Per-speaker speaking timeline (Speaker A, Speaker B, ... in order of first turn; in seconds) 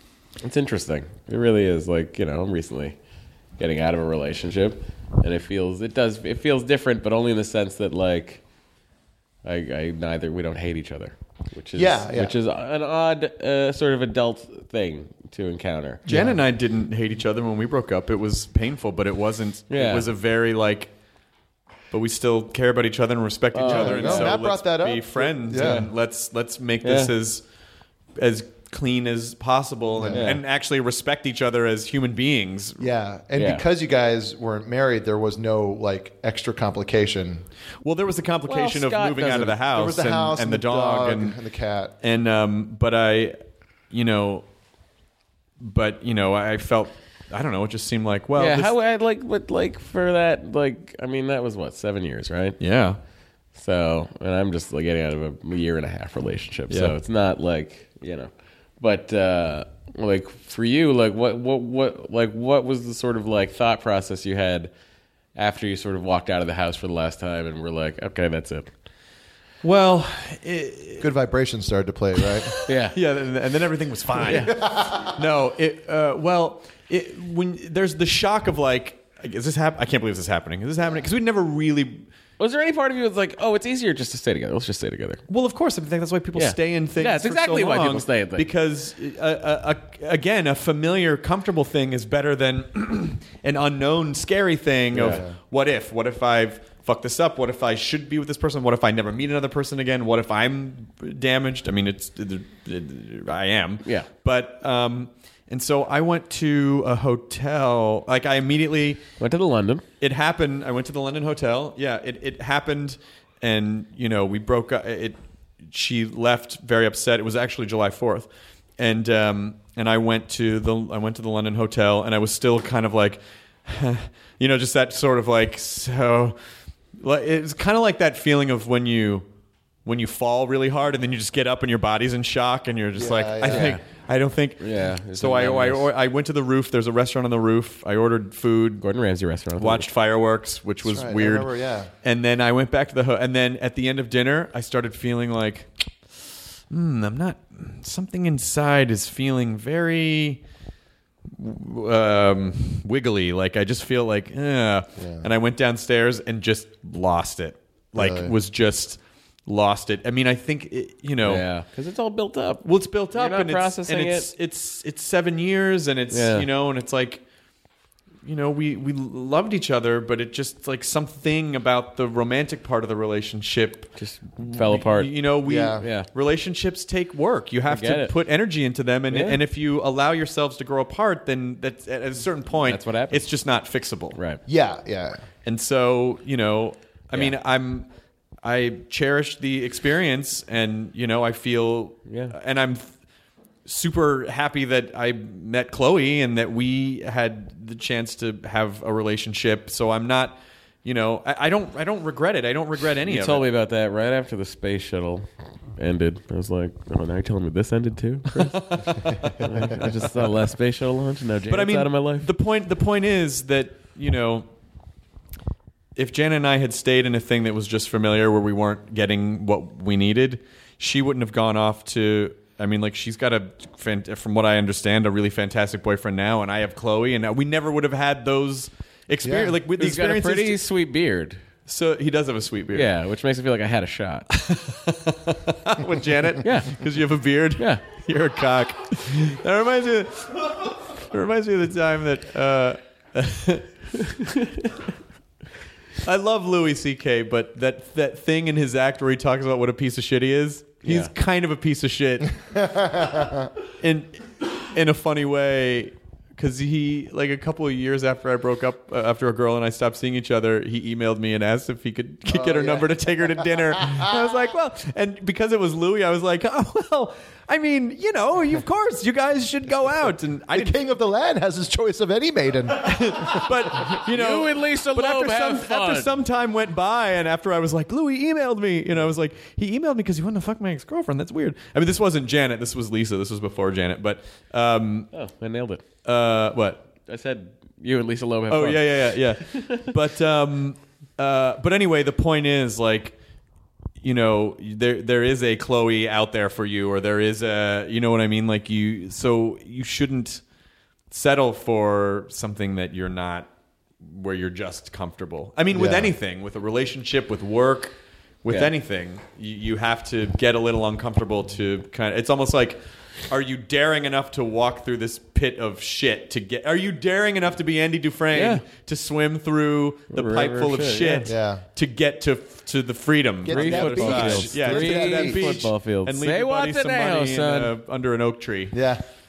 Speaker A: 0.4-3.0, 3.6-8.4, 9.4-16.0, 19.7-20.1, 23.5-24.4, 25.5-25.9, 26.8-27.1, 30.1-30.4, 33.4-33.6, 38.5-39.6, 48.4-52.6, 53.5-64.7, 65.3-68.7, 72.7-73.0, 74.2-74.6, 82.4-85.2, 86.3-88.5, 94.9-95.2, 109.2-109.8, 133.5-133.8, 134.6-135.9, 138.8-139.9, 161.2-164.3, 166.1-166.5, 174.0-175.1, 175.8-176.1, 177.7-178.1, 179.1-179.4, 182.6-183.3, 184.2-184.4, 192.1-192.3, 203.1-212.3, 229.8-231.4, 232.7-234.3, 236.4-236.8, 250.9-251.1, 274.1-276.2, 285.1-285.8, 287.0-289.9, 318.3-318.6, 320.1-321.3, 323.5-327.7
Speaker B: 11.8-12.4, 16.1-16.4, 23.6-25.9, 30.0-30.3, 32.8-37.5, 39.7-42.0, 71.0-72.6, 74.3-75.2, 94.9-95.4, 133.0-133.8, 140.8-141.9, 155.0-155.3, 157.9-158.3, 175.4-175.9, 184.5-185.2, 229.2-229.6, 252.5-253.5, 262.3-264.1, 270.5-273.6, 305.7-306.1, 321.2-321.6, 323.4-325.7, 328.7-329.0
Speaker C: 16.1-20.9, 21.9-27.4, 28.2-32.9, 37.8-41.4, 42.0-43.4, 43.9-44.5, 45.6-48.7, 52.6-53.0, 56.7-57.0, 69.6-71.1, 72.5-82.1, 85.3-109.0, 110.0-115.2, 115.7-126.4, 127.0-129.3, 129.8-138.8, 139.6-141.5, 142.0-150.4, 151.3-161.4, 162.6-167.2, 168.2-184.2, 185.4-187.9, 188.4-192.9, 193.7-203.5, 208.5-209.8, 211.5-214.5, 216.0-230.6, 231.7-232.9, 234.3-243.7, 246.0-253.0, 253.8-270.8, 272.8-285.1, 286.1-286.9, 288.5-293.2, 294.0-300.4, 301.1-303.5, 304.0-328.8